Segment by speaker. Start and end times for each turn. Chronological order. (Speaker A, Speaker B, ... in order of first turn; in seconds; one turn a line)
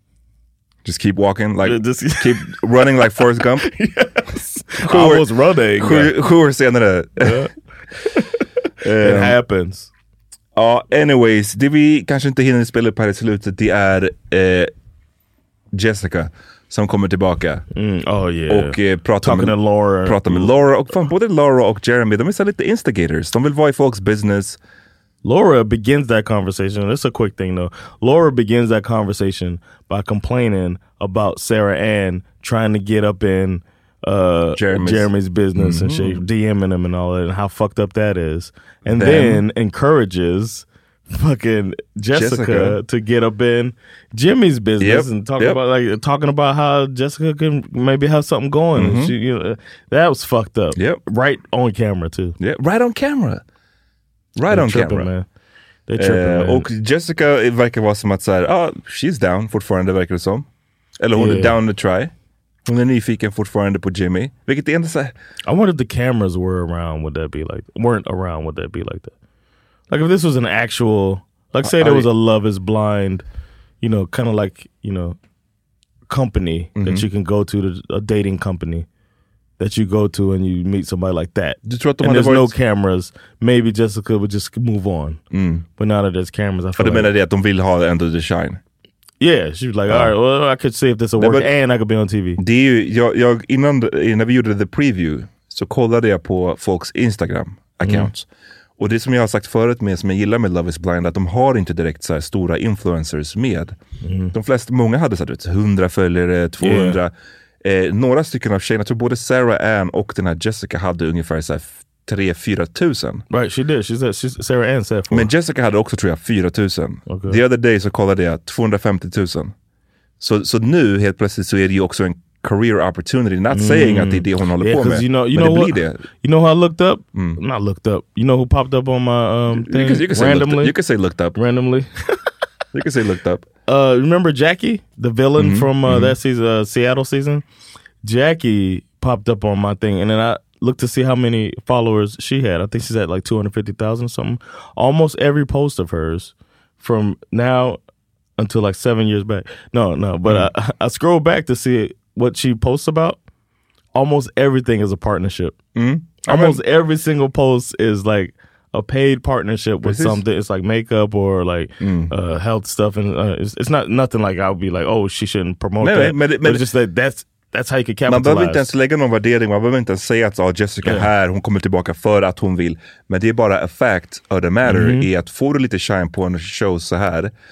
Speaker A: 0.8-3.7
Speaker B: 1.6-6.2
Speaker A: 4.8-7.4
Speaker B: 7.2-7.5
Speaker B: 8.1-8.4
Speaker A: 8.8-9.4
Speaker B: 9.0-9.9
Speaker A: 10.6-14.7
Speaker A: 15.7-17.6
Speaker B: 17.7-20.6
Speaker A: 18.5-24.6
Speaker B: 25.2-52.4
Speaker A: 34.5-36.2
Speaker A: 38.9-39.4
Speaker A: 42.1-42.8
Speaker A: 44.8-45.6
Speaker A: 48.8-49.1
Speaker A: 50.8-51.0
Speaker A: 52.4-53.4
Speaker A: 54.4-55.1
Speaker B: 54.5-55.3
Speaker B: 55.9-56.7
Speaker A: 56.0-60.5
Speaker A: 61.0-62.1
Speaker B: 61.2-61.5
Speaker A: 62.6-65.2
Speaker B: 65.5-69.1
Speaker B: 69.9-73.2
Speaker A: 71.6-72.1
Speaker B: 73.8-75.2
Speaker B: 76.1-78.9
Speaker A: 76.8-77.1
Speaker B: 79.6-85.2
Speaker A: 81.6-82.5
Speaker A: 85.3-85.7
Speaker B: 85.8-87.1
Speaker A: 86.8-88.6
Speaker B: 89.2-92.4
Speaker A: 89.9-90.1
Speaker A: 91.2-91.5
Speaker A: 92.4-98.3
Speaker B: 97.8-98.1
Speaker A: 98.8-103.8
Speaker B: 104.0-104.3
Speaker A: 104.3-107.1
Speaker B: 106.6-107.0
Speaker A: 107.6-113.2
Speaker B: 113.3-115.3
Speaker A: 115.1-119.5
Speaker B: 117.1-117.4
Speaker A: 120.2-126.0
Speaker B: 123.5-130.8
Speaker A: 127.2-127.4
Speaker A: 129.5-131.4
Speaker B: 131.3-132.2
Speaker A: 132.7-133.5
Speaker B: 133.7-137.4
Speaker A: 135.4-136.2
Speaker B: 138.0-147.8
Speaker B: 148.4-153.2
Speaker B: 153.9-155.6
Speaker A: 155.8-156.6
Speaker B: 156.2-168.7
Speaker A: 159.8-160.2
Speaker A: 161.8-162.1
Speaker A: 165.8-166.7
Speaker A: 168.1-177.3
Speaker B: 170.8-171.1
Speaker B: 174.7-175.1